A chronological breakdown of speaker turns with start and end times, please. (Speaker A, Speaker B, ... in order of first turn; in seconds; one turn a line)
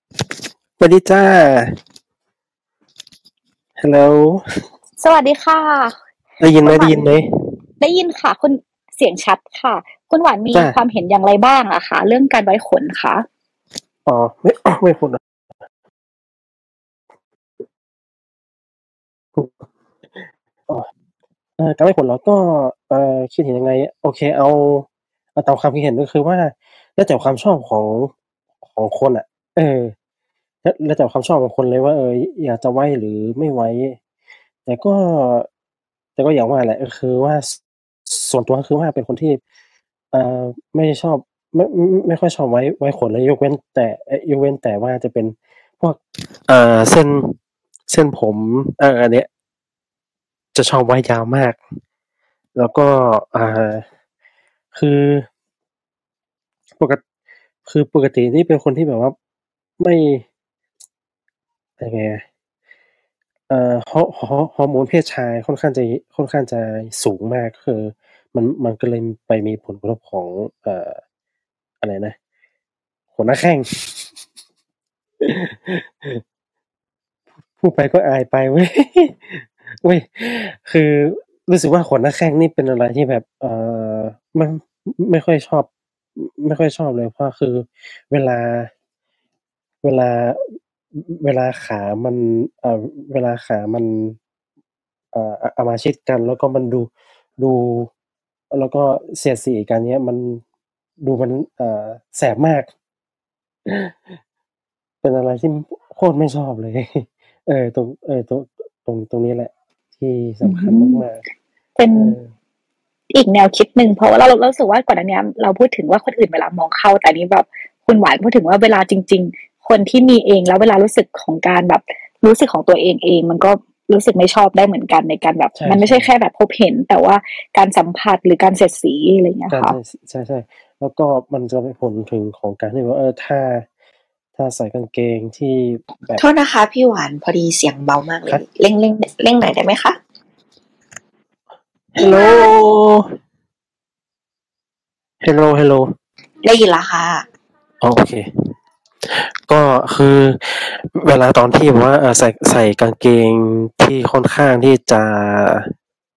Speaker A: 0.8-1.8
Speaker A: 3.8-4.4
Speaker B: 5.0-6.0
Speaker A: 6.4-7.3
Speaker B: 6.6-7.1
Speaker B: 7.8-13.2
Speaker A: 14.1-15.2
Speaker A: 19.4-19.6
Speaker A: 20.2-20.9
Speaker A: 21.6-28.1
Speaker A: 28.7-29.9
Speaker A: 30.6-34.0
Speaker A: 34.6-35.5
Speaker A: 36.2-39.4
Speaker A: 40.1-47.4
Speaker A: 47.9-49.3
Speaker A: 50.5-51.6
Speaker A: 52.5-53.9
Speaker A: 54.7-55.3
Speaker A: 56.8-57.0
Speaker A: 57.6-59.1
Speaker A: 59.8-60.2
Speaker A: 61.8-62.2
Speaker A: 63.5-71.0
Speaker A: 71.8-72.2
Speaker A: 73.1-74.0
Speaker A: 75.2-76.2
Speaker A: 77.6-88.7
Speaker A: 89.8-94.2
Speaker A: 95.1-97.9
Speaker A: 98.5-100.4
Speaker A: 101.0-102.7
Speaker A: 103.7-104.0
Speaker A: 105.0-111.2
Speaker B: 110.4-111.0
Speaker B: 111.8-112.1
Speaker A: 112.0-112.3
Speaker B: 113.1-129.8
Speaker A: 125.6-126.1
Speaker A: 129.5-133.7
Speaker A: 134.4-136.2
Speaker C: 136.2-140.0
Speaker A: 142.0-143.1
Speaker A: 145.2-145.9
Speaker C: 146.4-147.2
Speaker A: 147.8-148.2
Speaker A: 149.1-155.7